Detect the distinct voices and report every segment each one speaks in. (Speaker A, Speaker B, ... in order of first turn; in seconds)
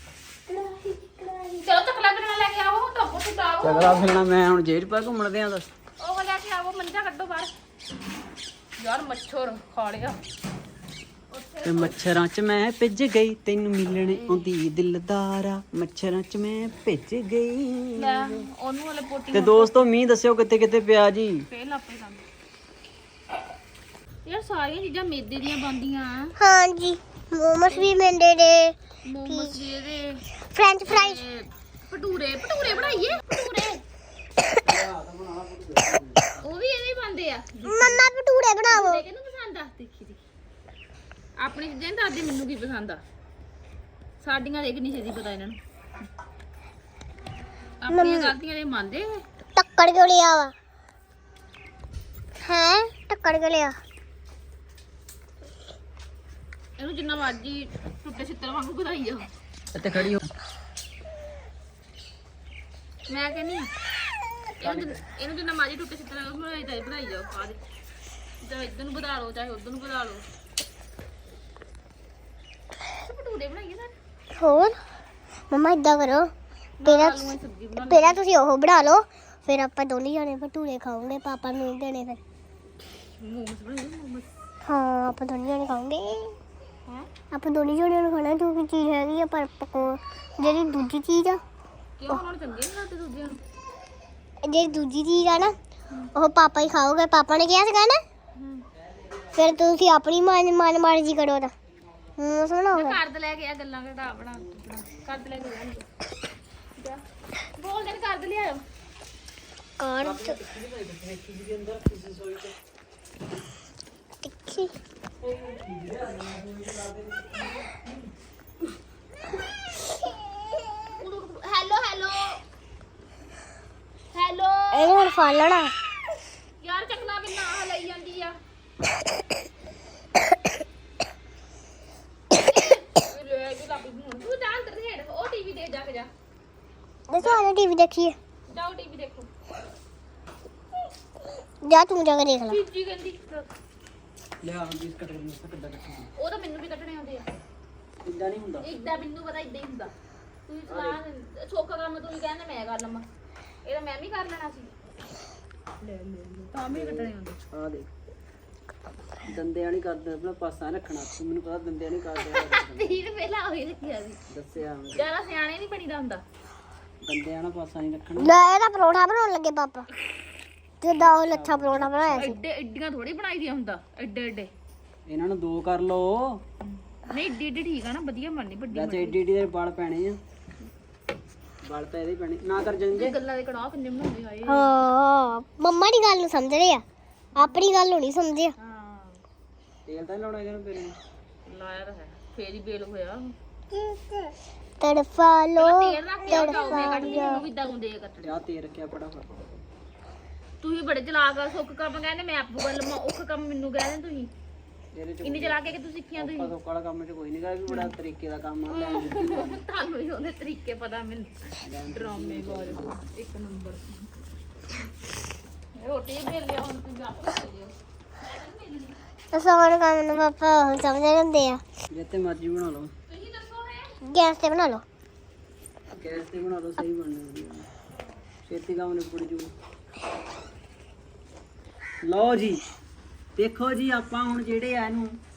Speaker A: 0.5-4.1, 6.0-7.5, 8.8-10.2, 11.3-12.0, 14.1-14.5, 17.9-19.9, 21.5-22.2, 24.3-26.4, 27.7-27.9, 29.1-30.2, 30.9-33.8, 36.4-38.1, 38.7-40.2, 41.4-43.0, 44.2-45.6, 47.8-49.2, 56.8-59.3, 63.1-63.7, 64.6-67.6, 68.4-70.2, 73.0-73.9, 76.8-78.2, 83.2-84.3, 92.0-93.4, 98.4-98.7, 102.7-105.9, 106.8-107.0, 107.5-108.6, 120.9-122.4, 124.1-125.2, 126.6-128.4, 132.3-136.1, 137.2-137.5, 138.5-139.3, 142.5-143.5, 146.2-147.3, 148.6-149.9, 150.5-153.1, 153.7-154.7, 155.8-157.4, 162.2-164.2, 164.9-166.2, 172.2-174.5, 176.7-179.2, 182.9-184.7, 187.4-187.6, 188.6-189.2, 191.4-193.3, 195.6-198.4, 200.6-204.3, 205.2-206.5, 207.7-207.9, 208.7-214.1, 215.8-219.0, 223.1-223.9
Speaker B: 3.6-5.7, 11.7-18.5, 19.3-21.5, 34.6-36.4, 59.7-60.3, 64.6-65.0, 110.0-112.5, 115.2-117.8, 144.4-146.1, 148.0-148.7, 150.7-151.0, 156.7-157.9, 159.2-163.0, 164.3-165.1, 167.0-168.4, 170.9-172.2, 175.1-176.4, 178.7-180.2, 181.6-183.2, 189.9-191.0, 198.2-199.5, 204.9-209.6, 211.6-213.0, 221.9-222.9, 225.9-227.7, 228.5-229.5, 232.0-232.6, 233.4-235.2
Speaker C: 26.4-28.8, 29.3-29.6, 30.4-31.2, 37.7-39.0, 47.9-48.3, 49.6-50.5, 52.4-53.8, 74.3-74.8, 75.5-76.3, 76.9-82.2, 84.6-86.4, 87.3-91.4, 94.4-95.5, 96.2-98.0, 99.3-101.5, 102.2-103.0, 109.8-110.4, 114.2-114.7, 124.7-125.8, 137.1-138.2, 141.6-142.6, 168.2-169.9, 170.8-172.4, 184.5-186.8, 187.3-188.5, 193.7-197.4, 219.3-221.6, 224.0-224.8